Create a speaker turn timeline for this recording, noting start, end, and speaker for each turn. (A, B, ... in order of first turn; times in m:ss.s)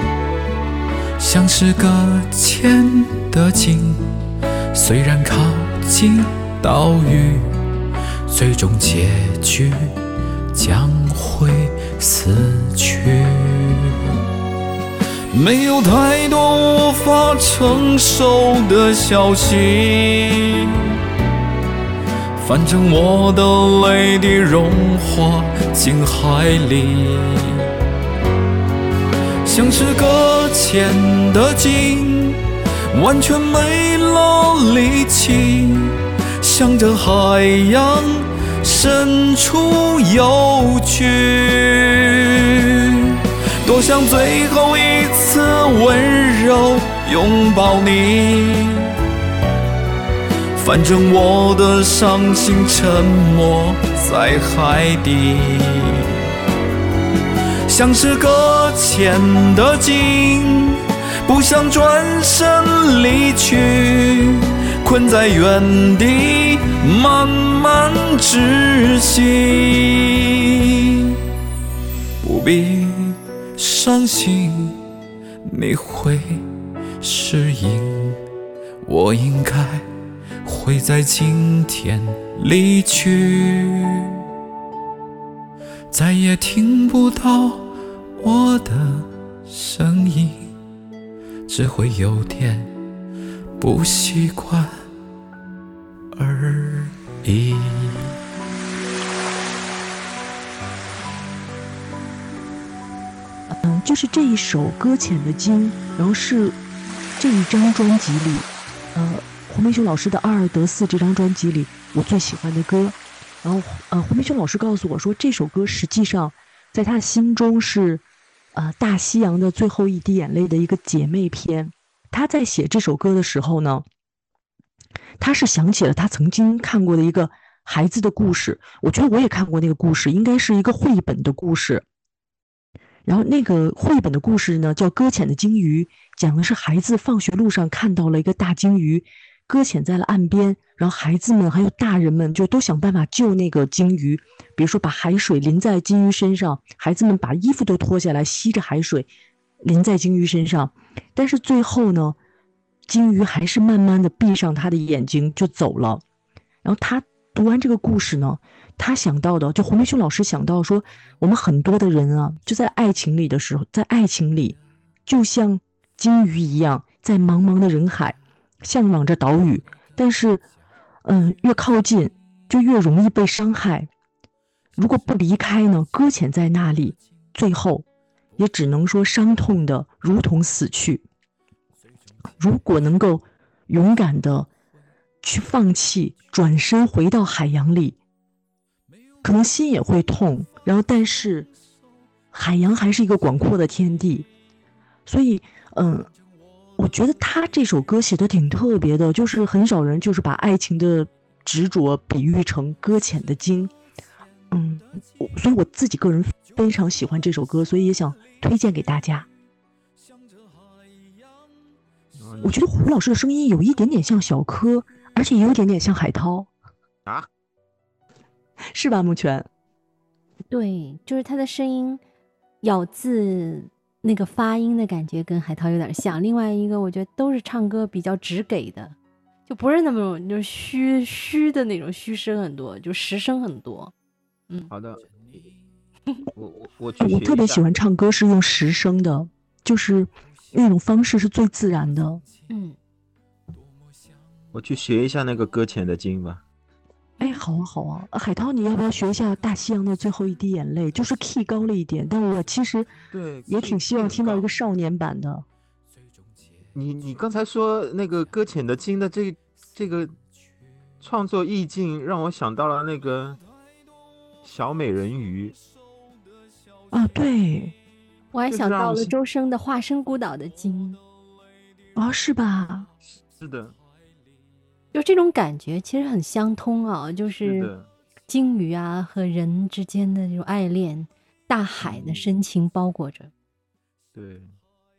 0:01.2-0:04.1 A
0:04.7-0:07.5 A
0:08.3-0:09.9 A
0:10.5-0:14.1 A
0:15.3-0:20.9 A
0:22.4-0:27.6 A
0:29.4-0:32.4 A
0:32.9-0:48.9 A
0:50.6-0:56.2 A
0:57.7-1:11.2 A
1:12.2-1:14.8 A
1:15.4-1:16.4 A
1:17.0-1:18.2 A
1:18.8-1:19.9 A
1:20.4-1:24.2 A
1:25.9-1:30.5 A
1:31.5-1:32.7 A
1:33.6-1:34.8 A
1:36.1-1:38.1 A
1:43.5-1:46.6 B
1:47.2-2:03.8 B
2:05.2-2:11.8 B
2:13.0-2:29.1 B
2:29.6-2:32.2 B
2:32.9-2:36.0 B
2:36.6-2:50.4 B
2:51.0-2:53.9 B
2:54.8-2:57.8 B
2:58.4-3:01.0 B
3:02.4-3:04.5 B
3:05.2-3:08.0 B
3:09.2-3:11.5 B
3:12.3-3:14.3 B
3:15.1-3:16.1 B
3:16.8-3:23.7 B
3:24.5-3:29.3 B
3:32.2-3:32.5 C
3:32.4-3:36.5 B
3:38.7-3:39.5 B
3:40.5-3:42.0 D
3:42.6-3:49.0 D
3:49.5-3:53.9 D
3:54.7-3:55.0 C
3:56.3-3:57.6 C
3:57.0-4:02.2 B
4:02.5-4:02.8 D
4:04.5-4:06.4 C
4:07.2-4:12.9 B
4:13.1-4:14.4 C
4:13.5-4:15.4 B
4:16.7-4:20.1 C
4:21.0-4:23.4 C
4:24.4-4:25.6 C
4:26.9-4:27.7 B
4:28.3-4:31.0 D
4:28.5-4:29.1 C
4:31.9-4:32.9 B
4:33.2-4:33.7 C
4:34.9-4:37.7 D
4:37.4-4:37.9 C
4:38.3-4:43.3 D
4:41.8-4:42.3 C
4:44.1-4:44.5 C